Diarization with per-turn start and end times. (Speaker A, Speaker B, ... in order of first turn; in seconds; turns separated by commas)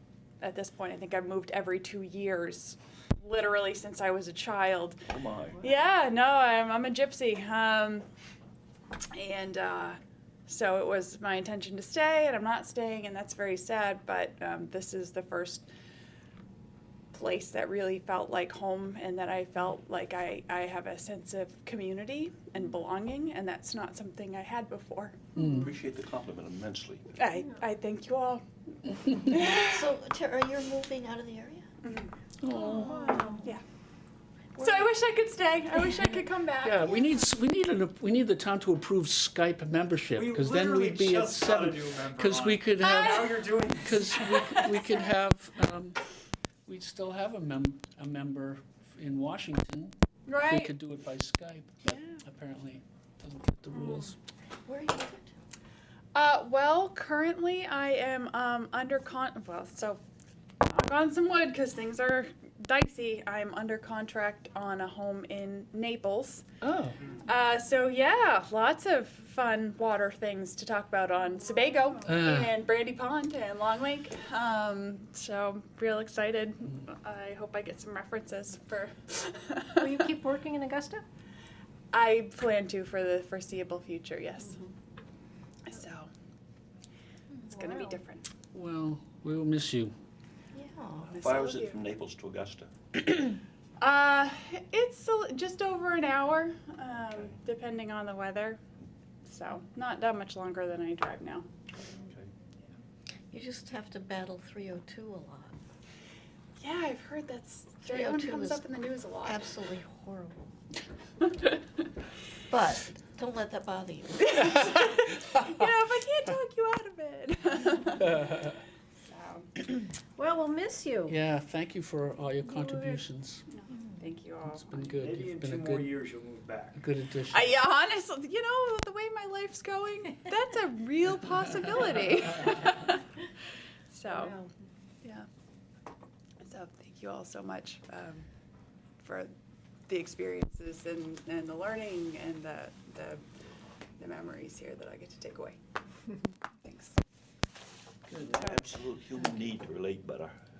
Speaker A: 0.4-5.0, Speaker B: 5.1-5.6, Speaker A: 5.6-8.1, Speaker A: 9.1-15.7, Speaker A: 17.1-25.2, Speaker C: 25.4-25.7, Speaker B: 25.5-27.1, Speaker A: 27.2-28.4, Speaker A: 29.1-29.5, Speaker D: 29.2-31.7, Speaker A: 31.8-32.1, Speaker C: 32.4-33.4, Speaker E: 32.8-33.4, Speaker A: 34.6-37.0, Speaker D: 34.6-34.9, Speaker C: 36.6-46.0, Speaker F: 40.1-44.2, Speaker A: 42.8-43.6, Speaker A: 44.3-44.8, Speaker C: 46.7-54.2, Speaker A: 50.3-50.7, Speaker D: 54.7-55.3, Speaker A: 56.1-60.0, Speaker A: 60.6-66.5, Speaker C: 66.6-67.0, Speaker F: 67.0-67.2, Speaker A: 67.2-80.0, Speaker C: 72.1-72.5, Speaker E: 79.8-81.0, Speaker A: 81.9-84.6, Speaker A: 85.7-86.1, Speaker A: 87.5-88.2, Speaker C: 88.5-89.9, Speaker D: 90.5-91.2, Speaker A: 91.1-91.8, Speaker B: 91.2-93.1, Speaker A: 93.8-98.6, Speaker A: 99.2-101.5, Speaker D: 103.3-105.6, Speaker A: 106.6-109.4, Speaker D: 107.8-108.7, Speaker D: 109.2-110.5, Speaker D: 112.5-114.7, Speaker A: 114.3-118.3, Speaker C: 118.2-118.5, Speaker A: 119.0-119.7, Speaker E: 120.2-121.1, Speaker C: 121.1-123.4, Speaker A: 122.6-123.0, Speaker A: 123.5-124.8, Speaker C: 124.5-126.0, Speaker F: 125.0-126.8, Speaker C: 126.8-127.5, Speaker A: 127.3-133.0, Speaker A: 133.9-134.3, Speaker E: 134.1-134.5, Speaker A: 136.4-138.3, Speaker A: 139.0-139.3, Speaker A: 139.9-143.2, Speaker A: 144.0-145.6, Speaker A: 146.6-147.0, Speaker A: 148.2-148.7, Speaker B: 148.2-150.4